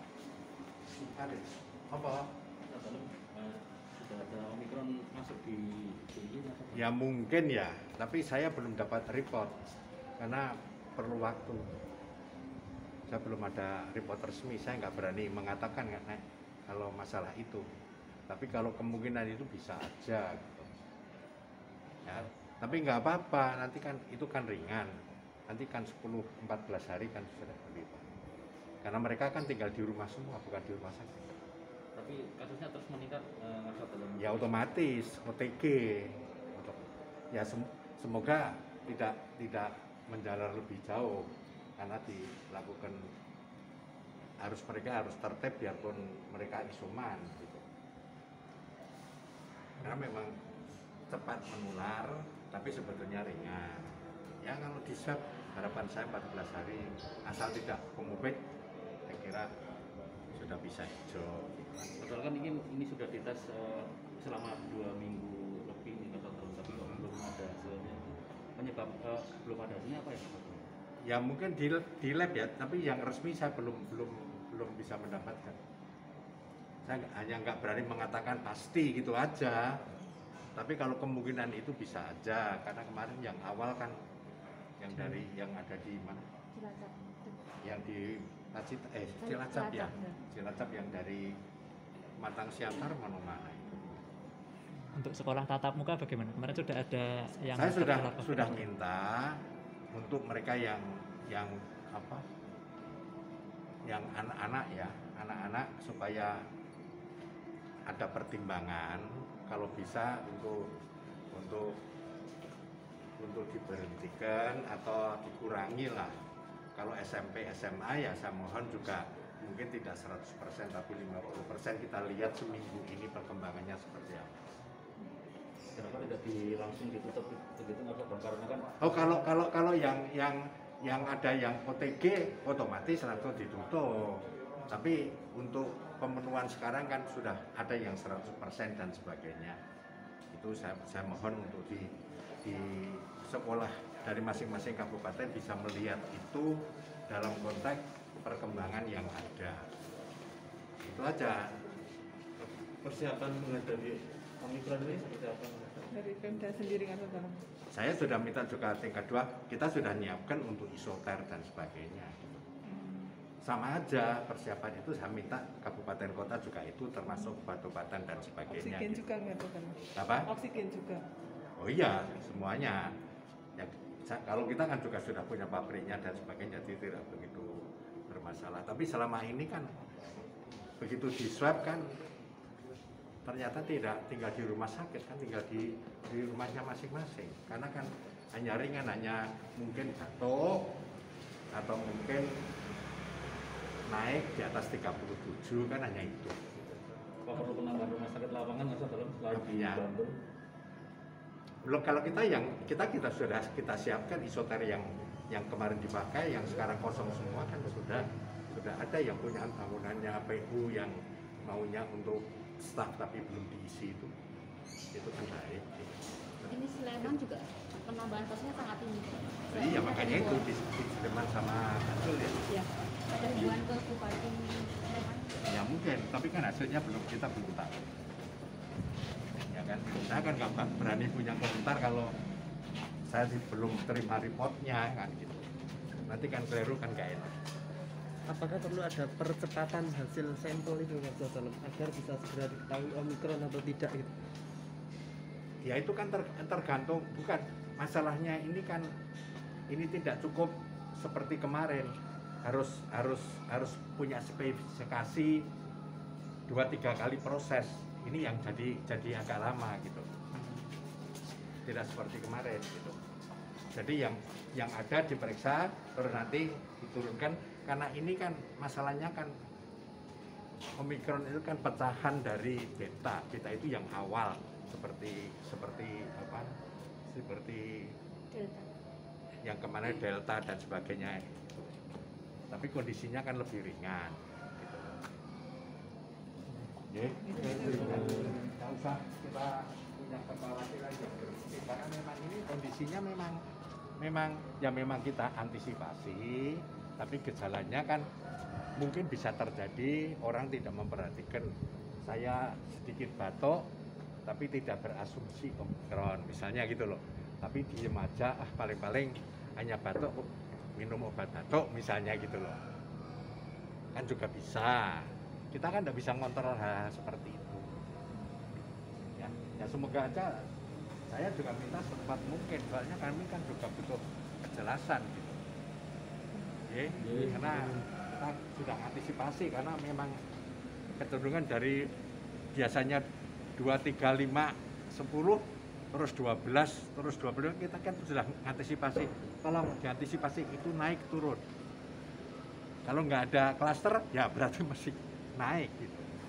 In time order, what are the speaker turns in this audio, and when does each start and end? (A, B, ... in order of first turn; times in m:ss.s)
0:00.9-0:02.3 A
0:02.7-0:06.9 B
0:06.7-0:09.6 A
0:10.2-0:11.6 A
0:13.1-0:17.6 A
0:18.3-0:20.7 A
0:22.0-0:24.9 A
0:25.5-0:28.0 A
0:28.8-0:31.3 A
0:31.9-0:34.5 B
0:34.2-0:43.1 A
0:44.4-0:47.6 A
0:49.8-0:50.3 A
0:51.1-0:58.4 A
0:59.1-0:59.5 A
1:00.3-1:02.0 A
1:02.0-1:10.6 B
1:06.7-1:07.0 A
1:11.0-1:15.6 A
1:16.8-1:19.8 A
1:20.6-1:23.9 A
1:24.8-1:26.2 A
1:26.5-1:27.4 C
1:27.6-1:31.3 A
1:29.2-1:30.2 C
1:32.2-1:34.0 A
1:34.9-1:38.6 D
1:37.5-1:39.4 A
1:39.9-1:42.2 A
1:43.8-1:46.4 A
1:47.9-1:50.7 A
1:51.3-1:51.8 A
1:53.2-1:56.1 A
1:56.8-2:04.4 A
2:05.7-2:09.2 B
2:08.8-2:19.6 A
2:20.3-2:29.7 A
2:30.8-2:31.7 A
2:32.8-2:36.4 B
2:35.9-2:37.4 E
2:37.7-2:42.4 A
2:42.7-2:43.1 E
2:43.4-2:49.0 A
2:48.5-2:49.8 E
2:50.0-2:50.3 A
2:50.3-2:51.0 E
2:51.6-2:53.0 A
2:53.6-2:59.7 A
3:00.8-3:01.9 A
3:03.2-3:10.8 A
3:11.5-3:12.3 A
3:13.9-3:16.3 A
3:17.2-3:20.2 B
3:19.3-3:19.9 A
3:21.6-3:34.1 A
3:34.9-3:37.1 A
3:36.5-3:40.4 C
3:39.5-3:42.5 A
3:42.5-3:45.4 C
3:45.4-3:47.8 A
3:49.5-3:52.1 A
3:53.0-3:55.5 A
3:56.0-3:57.3 A
3:58.3-4:04.1 F
4:05.6-4:08.8 A
4:09.7-4:11.9 A
4:12.4-4:15.4 A
4:16.5-4:20.0 A
4:21.6-4:23.0 A
4:23.7-4:29.3 A
4:30.8-4:36.5 A
4:37.1-4:37.9 A
4:38.3-4:38.7 C
4:39.4-4:41.7 A
4:42.5-4:45.0 A
4:46.9-4:53.4 A
4:47.2-4:47.9 E
4:47.6-4:48.4 B
4:54.0-4:58.0 A
4:58.8-5:01.5 A
5:02.0-5:03.7 A
5:04.2-5:12.6 A
5:13.9-5:17.7 A
5:19.2-5:20.5 A
5:21.1-5:25.4 A
5:26.7-5:30.2 A
5:27.0-5:27.8 B
5:31.0-5:31.9 A
5:32.5-5:33.0 A
5:33.6-5:41.4 A
5:42.8-5:46.1 A